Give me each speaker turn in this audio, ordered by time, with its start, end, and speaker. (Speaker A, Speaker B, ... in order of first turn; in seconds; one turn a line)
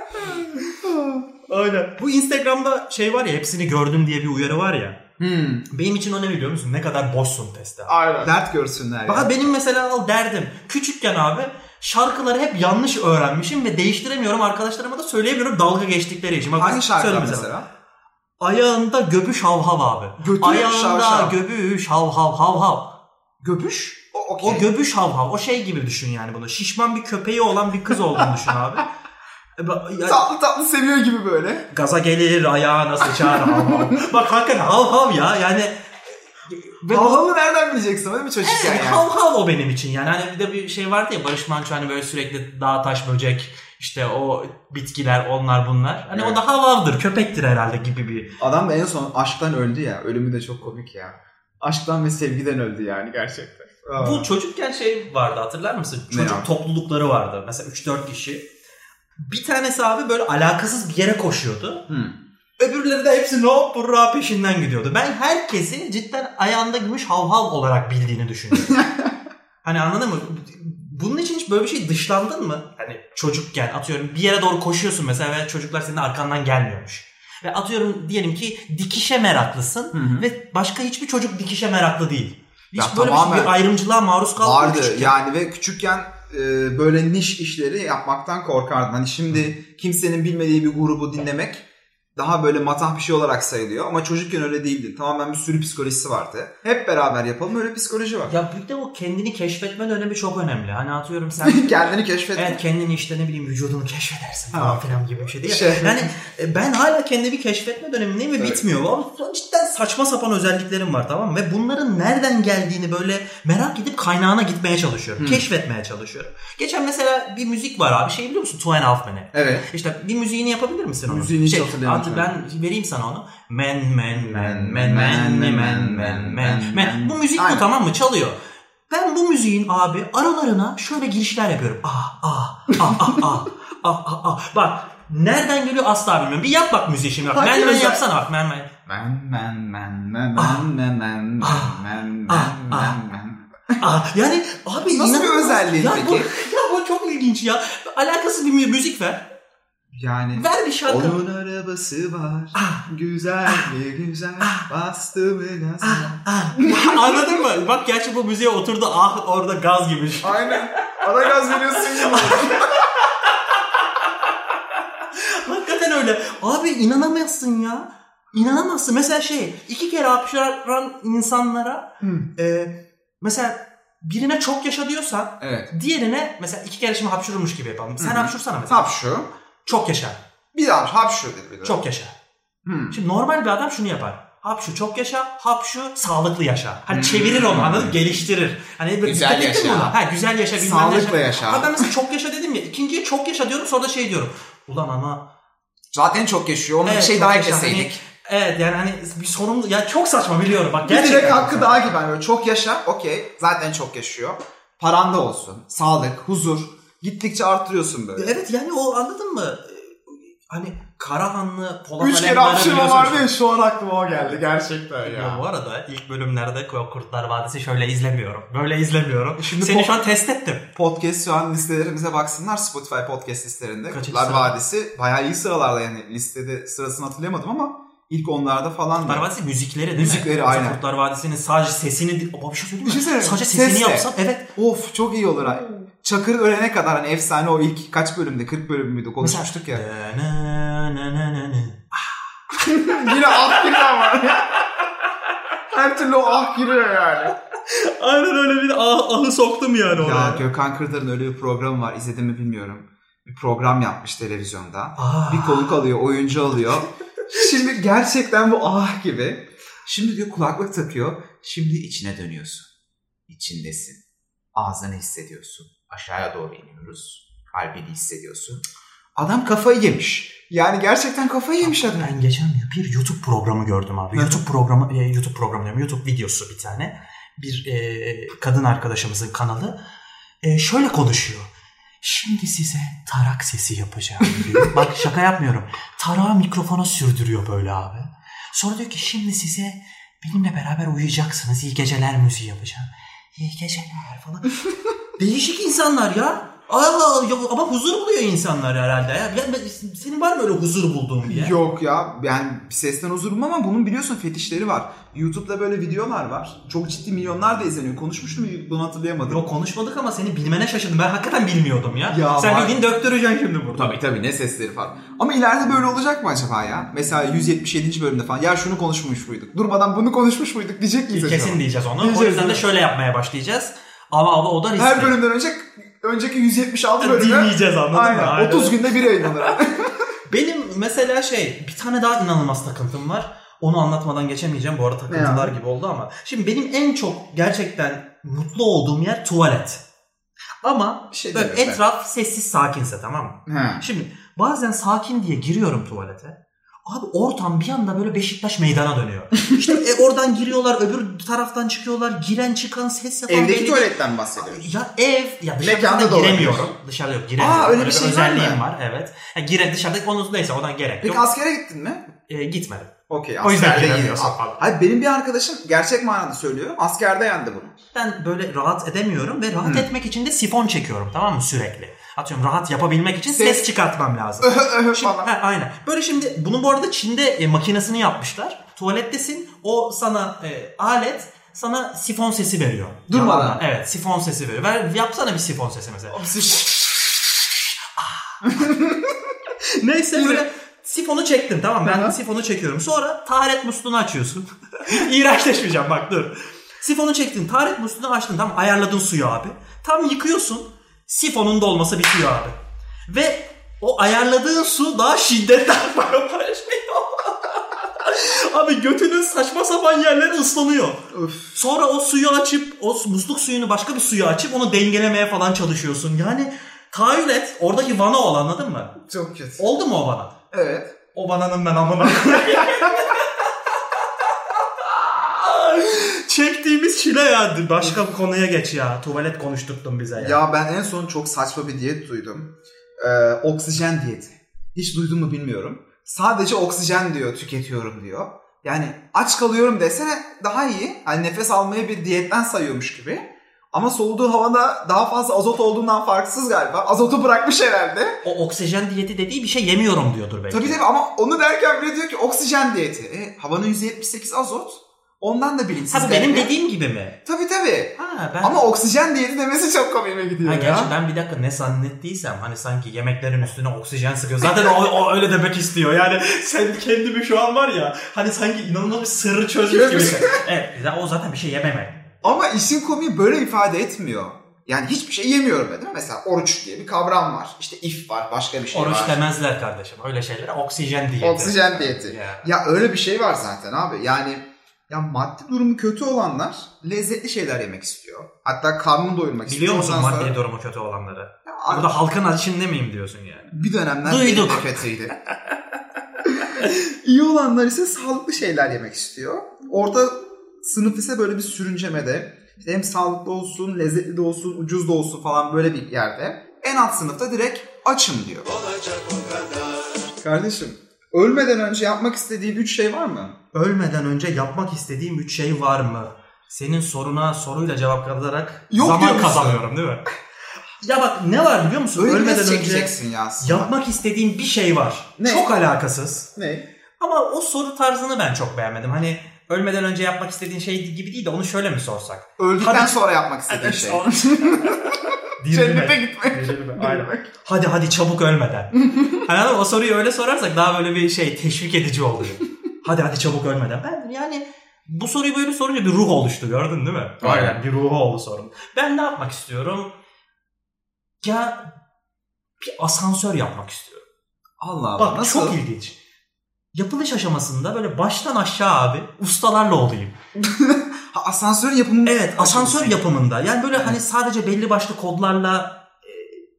Speaker A: 0.2-1.3
Speaker B: 1.5-5.0
Speaker A: 5.2-5.7
Speaker B: 5.7-8.3
Speaker A: 7.9-9.5
Speaker B: 9.1-17.5
Speaker A: 16.6-17.7
Speaker B: 18.4-28.9
Speaker A: 20.2-21.4
Speaker A: 24.1-24.7
Speaker B: 29.6-30.2
Speaker A: 30.1-31.7
Speaker B: 31.7-35.8
Speaker A: 33.0-34.0
Speaker B: 36.5-37.3
Speaker A: 36.9-39.1
Speaker B: 38.4-48.4
Speaker A: 46.1-46.4
Speaker A: 48.4-54.3
Speaker B: 54.0-58.5
Speaker A: 56.1-56.5
Speaker B: 59.2-61.9
Speaker A: 61.9-62.2
Speaker B: 62.6-68.8
Speaker A: 68.6-69.1
Speaker B: 69.6-85.1
Speaker A: 79.9-80.3
Speaker A: 82.8-83.6
Speaker A: 84.4-98.4
Speaker B: 98.3-101.7
Speaker A: 101.4-102.6
Speaker B: 102.3-138.7
Speaker A: 104.5-106.1
Speaker A: 115.2-115.5
Speaker A: 119.3-119.7
Speaker A: 121.1-122.3
Speaker A: 124.1-127.7
Speaker A: 132.9-133.2
Speaker A: 137.3-138.0
Speaker A: 138.9-143.8
Speaker B: 140.4-140.7
Speaker B: 141.4-143.0
Speaker B: 143.8-149.3
Speaker A: 144.9-146.3
Speaker A: 149.9-157.4
Speaker B: 150.4-151.2
Speaker B: 152.6-152.8
Speaker B: 154.4-154.7
Speaker B: 155.8-161.0
Speaker A: 160.2-162.7
Speaker B: 161.7-163.3
Speaker B: 165.1-178.9
Speaker A: 172.0-172.3
Speaker A: 175.4-175.7
Speaker A: 178.0-179.3
Speaker B: 179.7-180.2
Speaker A: 180.5-181.8
Speaker B: 181.6-182.2
Speaker A: 182.7-183.0
Speaker B: 182.9-195.2
Speaker A: 186.9-188.2
Speaker A: 189.0-190.0
Speaker A: 190.6-191.9
Speaker A: 195.9-198.0
Speaker B: 196.8-201.9
Speaker A: 200.8-208.3
Speaker B: 208.2-213.3
Speaker A: 212.0-215.4
Speaker B: 215.0-220.7
Speaker A: 219.4-220.0
Speaker A: 220.8-229.3
Speaker B: 223.9-224.6
Speaker B: 229.0-234.5
Speaker A: 229.9-230.8
Speaker A: 232.8-239.8
Speaker B: 239.2-242.0
Speaker A: 242.5-244.6
Speaker A: 245.7-247.3
Speaker B: 247.7-250.4
Speaker A: 249.9-262.7
Speaker B: 255.0-255.8
Speaker A: 263.3-264.0
Speaker A: 264.6-268.6
Speaker A: 269.2-272.1
Speaker B: 271.6-279.8
Speaker A: 274.1-274.4
Speaker B: 280.4-281.5
Speaker B: 282.0-294.6
Speaker B: 295.2-301.6
Speaker A: 301.2-309.4
Speaker B: 309.3-314.0
Speaker A: 312.1-312.8
Speaker A: 313.8-322.6
Speaker B: 321.1-325.2
Speaker A: 324.8-330.1
Speaker B: 327.0-328.8
Speaker B: 330.3-339.8
Speaker A: 335.1-335.6
Speaker B: 340.6-361.2
Speaker A: 341.1-341.8
Speaker A: 343.5-343.9
Speaker A: 353.3-354.6
Speaker A: 355.6-356.7
Speaker A: 357.4-358.6
Speaker A: 361.0-362.0
Speaker B: 362.2-364.6
Speaker A: 363.1-367.8
Speaker B: 367.9-386.9
Speaker A: 369.6-369.9
Speaker A: 373.3-373.7
Speaker A: 374.4-375.3
Speaker A: 383.1-383.6
Speaker A: 386.1-386.7
Speaker B: 388.0-388.5
Speaker A: 388.4-389.2
Speaker B: 389.8-402.6
Speaker A: 390.1-390.4
Speaker A: 391.8-392.2
Speaker B: 403.1-419.0
Speaker A: 411.1-411.6
Speaker A: 419.1-419.6
Speaker B: 419.6-420.3
Speaker A: 420.5-420.9
Speaker B: 421.1-423.3
Speaker A: 422.2-422.9
Speaker B: 425.0-430.4
Speaker A: 430.2-448.2
Speaker B: 448.2-450.8
Speaker A: 450.5-456.5
Speaker B: 455.9-457.2
Speaker A: 457.2-460.9
Speaker B: 458.0-458.6
Speaker B: 460.4-472.2
Speaker A: 469.7-470.4
Speaker A: 472.2-479.2
Speaker B: 478.7-482.5
Speaker A: 481.2-490.4
Speaker B: 489.5-493.5
Speaker A: 491.4-491.9
Speaker A: 493.5-495.1
Speaker B: 494.1-494.7
Speaker A: 496.2-509.4
Speaker A: 510.1-513.4
Speaker B: 513.5-520.1
Speaker A: 518.7-519.6
Speaker B: 520.8-526.3
Speaker A: 522.0-523.8
Speaker A: 525.2-525.5
Speaker A: 526.4-526.7
Speaker B: 527.0-549.9
Speaker A: 532.4-537.3
Speaker A: 547.2-547.6
Speaker B: 551.2-551.6
Speaker B: 552.6-554.1
Speaker A: 554.6-555.6
Speaker B: 555.0-556.0
Speaker B: 556.7-560.2
Speaker A: 560.4-563.0
Speaker B: 562.0-566.5